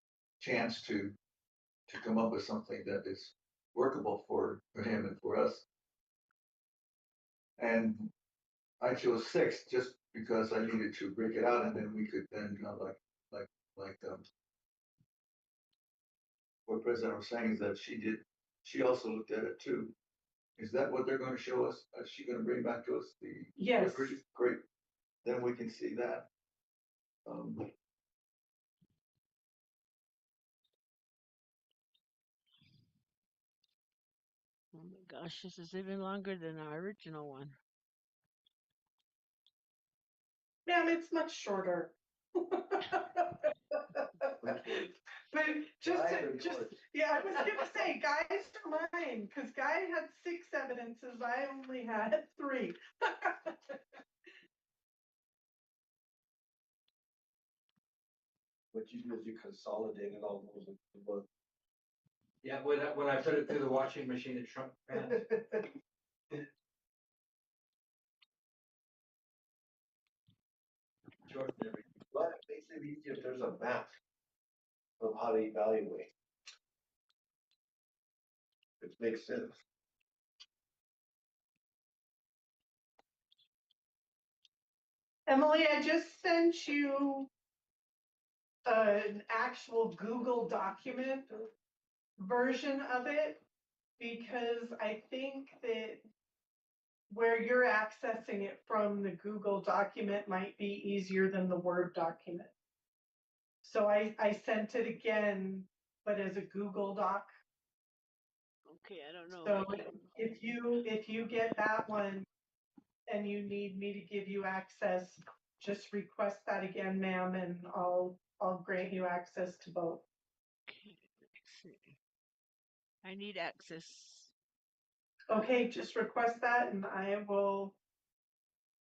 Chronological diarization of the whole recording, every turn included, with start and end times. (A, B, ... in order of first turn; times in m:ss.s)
0:00.4-0:01.2 A
0:01.9-0:05.6 A
0:07.6-0:08.1 A
0:08.8-0:14.2 A
0:16.7-0:19.9 A
0:20.6-0:24.6 A
0:23.6-0:24.2 B
0:25.2-0:26.3 A
0:27.2-0:27.7 A
0:34.7-0:37.5 C
0:40.6-0:44.4 B
0:44.4-0:44.9 D
0:45.3-0:53.8 B
0:45.8-0:47.7 D
0:58.7-1:01.2 D
1:02.4-1:05.3 E
1:12.1-1:13.9 D
1:15.0-1:16.1 D
1:18.8-1:19.6 D
1:25.3-1:27.3 B
1:28.6-1:31.5 B
1:32.2-1:33.4 B
1:34.0-1:36.0 B
1:37.1-1:42.5 B
1:43.6-1:47.3 B
1:48.6-1:50.2 C
1:49.3-1:52.2 B
1:53.1-2:00.0 B
2:00.7-2:01.9 C
2:03.0-2:04.3 C
2:05.3-2:07.8 B